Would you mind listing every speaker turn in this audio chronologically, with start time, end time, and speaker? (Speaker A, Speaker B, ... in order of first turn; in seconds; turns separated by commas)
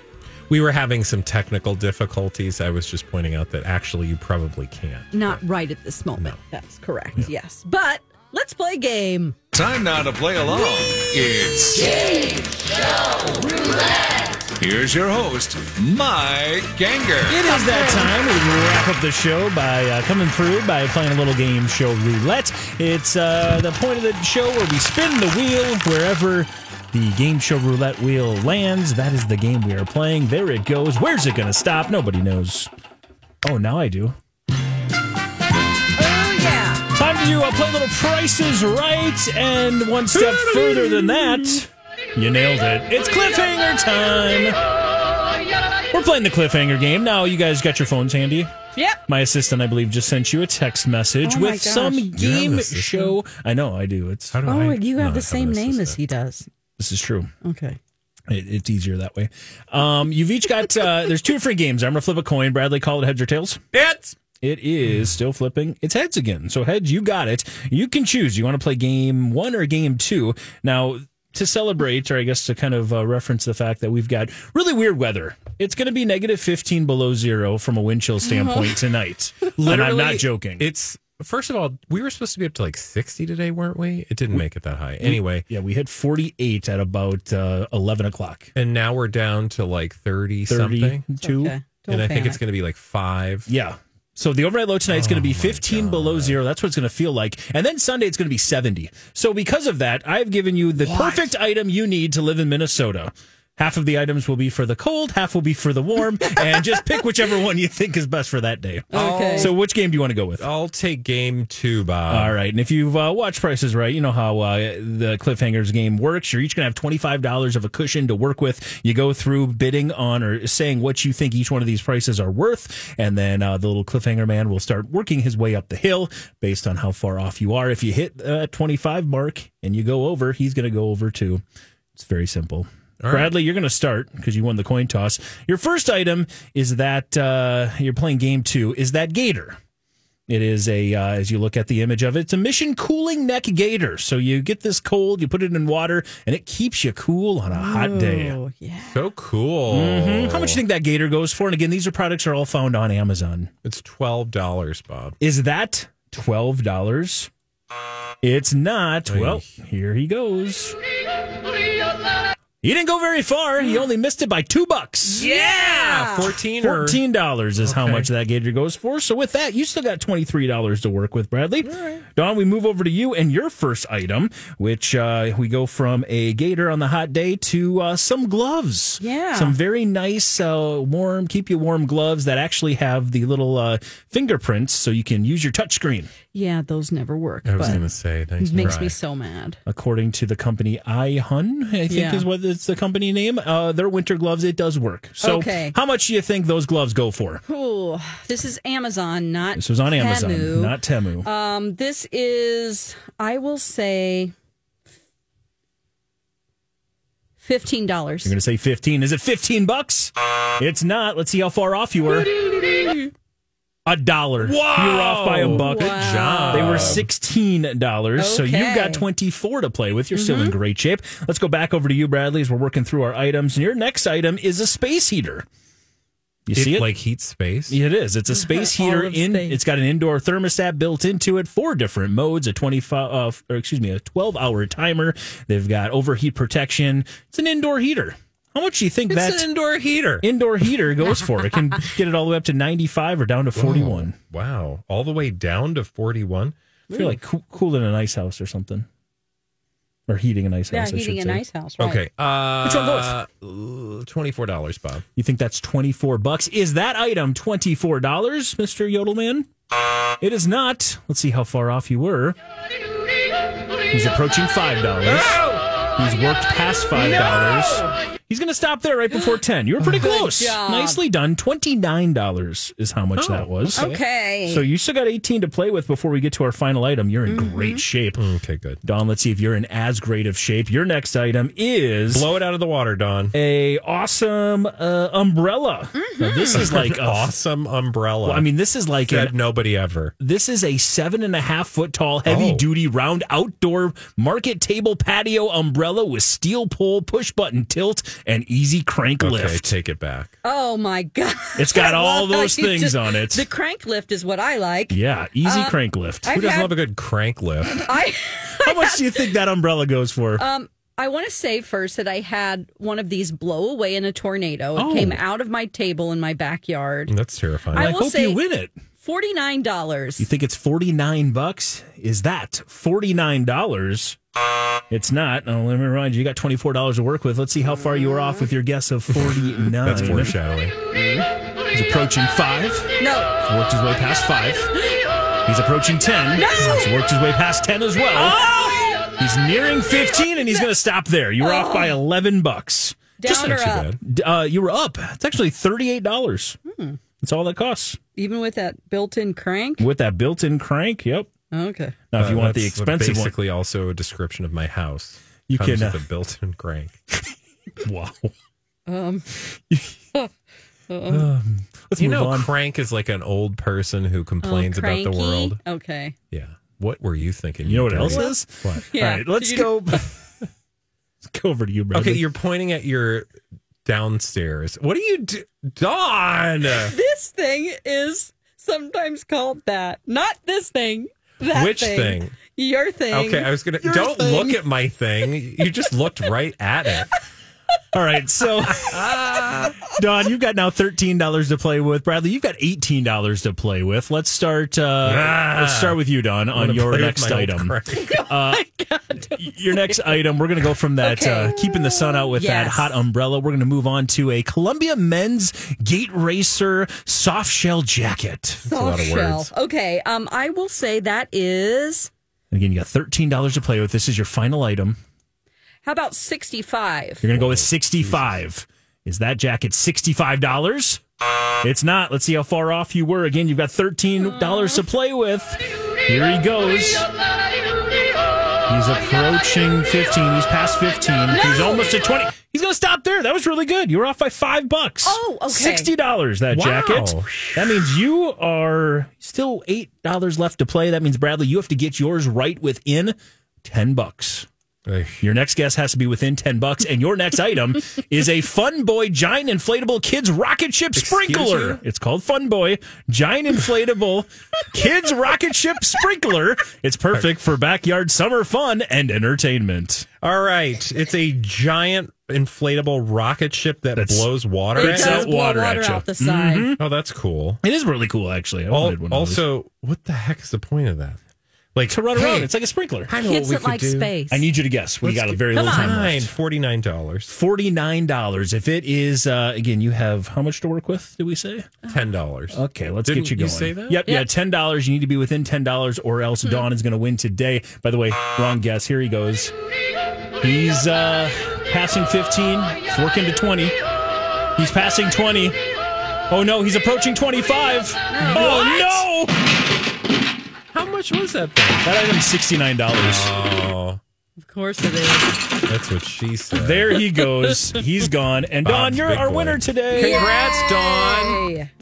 Speaker A: 0.5-5.4, Speaker B: 5.1-9.3, Speaker C: 9.7-10.5, Speaker C: 11.0-11.6, Speaker C: 14.6-17.3, Speaker D: 17.3-32.7, Speaker B: 17.6-18.1, Speaker D: 33.4-34.1, Speaker B: 36.0-36.8, Speaker D: 36.9-44.5, Speaker A: 40.1-41.3, Speaker D: 45.9-48.5, Speaker D: 49.1-54.4, Speaker B: 51.2-52.1, Speaker A: 52.1-53.2, Speaker A: 54.3-56.0, Speaker B: 54.4-56.5, Speaker D: 56.8-57.3, Speaker B: 57.4-57.8, Speaker D: 58.3-63.6, Speaker A: 63.8-64.1, Speaker D: 64.3-80.7, Speaker B: 78.2-78.7, Speaker A: 79.6-85.5, Speaker D: 85.0-88.5, Speaker A: 88.5-91.0, Speaker D: 90.5-91.5, Speaker B: 91.2-92.4, Speaker A: 91.9-93.5, Speaker D: 93.5-110.5, Speaker A: 94.9-96.4, Speaker A: 100.8-101.3, Speaker B: 108.9-109.5, Speaker A: 108.9-109.6, Speaker A: 110.4-112.3, Speaker D: 112.1-131.4, Speaker D: 131.9-139.6, Speaker A: 133.0-133.3, Speaker D: 140.3-148.4, Speaker B: 147.5-149.0, Speaker A: 148.9-150.6, Speaker D: 149.7-153.5, Speaker A: 153.6-155.2, Speaker D: 155.2-157.3, Speaker D: 158.2-160.7, Speaker A: 159.1-159.4, Speaker D: 162.6-165.2, Speaker B: 165.0-166.3, Speaker A: 165.2-167.0, Speaker D: 166.6-186.1, Speaker A: 167.6-168.1, Speaker A: 171.7-172.0, Speaker B: 179.0-179.6, Speaker B: 186.3-187.8, Speaker A: 187.4-188.9, Speaker B: 188.4-189.6, Speaker D: 189.7-197.4, Speaker B: 191.9-192.2, Speaker B: 195.2-195.8, Speaker B: 197.5-204.3, Speaker D: 199.6-201.3, Speaker B: 207.4-208.3, Speaker D: 208.2-212.3, Speaker D: 213.8-225.4, Speaker A: 214.4-217.1, Speaker B: 215.5-217.0, Speaker B: 218.2-219.1, Speaker B: 220.1-220.6, Speaker D: 226.5-226.9, Speaker A: 226.5-227.8, Speaker D: 227.7-239.5, Speaker B: 228.3-229.6, Speaker A: 239.1-240.2, Speaker D: 240.2-244.1, Speaker A: 243.6-247.1, Speaker D: 246.9-248.9, Speaker D: 250.1-251.4, Speaker B: 250.7-252.0, Speaker A: 251.8-255.1, Speaker D: 252.6-253.1, Speaker D: 255.2-259.5, Speaker D: 260.2-262.4, Speaker D: 263.9-265.4, Speaker A: 265.1-265.6, Speaker D: 266.0-278.2, Speaker B: 266.9-267.9, Speaker B: 269.1-271.0, Speaker A: 273.1-273.9, Speaker B: 273.7-274.6, Speaker B: 277.3-277.8, Speaker A: 278.2-278.8, Speaker D: 278.8-282.3, Speaker A: 282.1-283.3, Speaker D: 283.3-287.3, Speaker B: 285.9-286.6, Speaker A: 286.5-288.5, Speaker D: 288.2-289.3, Speaker A: 289.0-290.1, Speaker D: 290.2-299.7, Speaker A: 292.2-292.6, Speaker A: 299.2-300.3, Speaker B: 300.4-306.7, Speaker D: 301.6-303.4, Speaker D: 304.9-306.3, Speaker A: 306.3-307.8, Speaker B: 307.8-309.3, Speaker D: 308.6-310.4, Speaker B: 310.4-317.1, Speaker D: 314.8-315.2, Speaker A: 317.1-317.9, Speaker B: 317.7-318.4, Speaker D: 317.7-318.7, Speaker B: 319.0-320.3, Speaker D: 320.2-324.2, Speaker D: 324.9-330.4, Speaker B: 328.0-328.5, Speaker A: 329.1-330.7, Speaker B: 330.9-331.3, Speaker D: 331.7-334.7, Speaker B: 333.0-333.3, Speaker D: 335.4-346.6, Speaker B: 336.3-336.9, Speaker B: 338.1-339.1, Speaker B: 341.4-342.0, Speaker B: 343.2-343.9, Speaker A: 343.2-344.0, Speaker B: 346.6-347.0, Speaker D: 347.2-348.0, Speaker B: 348.1-349.8, Speaker D: 349.8-351.3, Speaker B: 351.5-351.9, Speaker D: 352.1-353.3, Speaker A: 352.2-357.0, Speaker D: 355.5-356.0, Speaker D: 357.8-358.3, Speaker B: 358.9-359.4, Speaker D: 359.7-359.9, Speaker B: 360.9-361.3, Speaker D: 361.1-362.5, Speaker A: 362.0-365.6, Speaker B: 364.4-366.1, Speaker A: 366.3-368.8, Speaker D: 367.6-370.2, Speaker B: 368.1-368.4, Speaker B: 368.9-370.1, Speaker D: 371.2-372.2, Speaker A: 371.9-373.3, Speaker A: 373.8-376.9, Speaker B: 376.7-383.5, Speaker A: 381.5-382.4, Speaker A: 383.1-387.1, Speaker D: 383.8-384.5, Speaker D: 387.9-389.0, Speaker A: 388.7-389.8, Speaker D: 389.8-398.7, Speaker A: 395.0-396.0, Speaker A: 396.5-398.1, Speaker B: 397.9-400.1, Speaker D: 399.3-408.6, Speaker B: 401.0-403.0, Speaker A: 408.6-409.5, Speaker B: 408.7-412.1, Speaker D: 412.5-415.0, Speaker B: 415.8-417.2, Speaker D: 417.2-421.0, Speaker A: 417.3-418.4, Speaker D: 421.6-427.1, Speaker B: 424.2-424.8, Speaker D: 428.7-444.5, Speaker B: 431.3-431.9, Speaker B: 435.0-435.9, Speaker A: 436.5-437.9, Speaker A: 444.9-445.2, Speaker D: 445.2-460.1, Speaker A: 450.9-451.8, Speaker A: 460.2-465.3, Speaker D: 463.9-466.8, Speaker B: 464.8-466.7, Speaker A: 466.8-467.6, Speaker D: 467.6-469.4, Speaker A: 468.7-471.2, Speaker A: 471.7-472.5, Speaker D: 471.9-473.1, Speaker A: 473.1-474.1, Speaker B: 473.2-474.5, Speaker D: 474.3-476.3, Speaker A: 475.0-477.3, Speaker B: 475.5-475.9, Speaker D: 477.3-481.7, Speaker A: 481.9-484.0, Speaker D: 482.5-489.5, Speaker D: 490.4-493.7, Speaker D: 494.6-495.6, Speaker D: 496.3-499.3, Speaker B: 498.1-499.1, Speaker A: 498.3-498.6, Speaker A: 500.7-501.9, Speaker D: 501.8-503.3, Speaker A: 503.0-504.0, Speaker B: 504.4-505.4, Speaker A: 505.7-506.9, Speaker D: 506.5-510.3, Speaker B: 506.9-507.8, Speaker A: 508.6-511.4, Speaker B: 509.9-511.7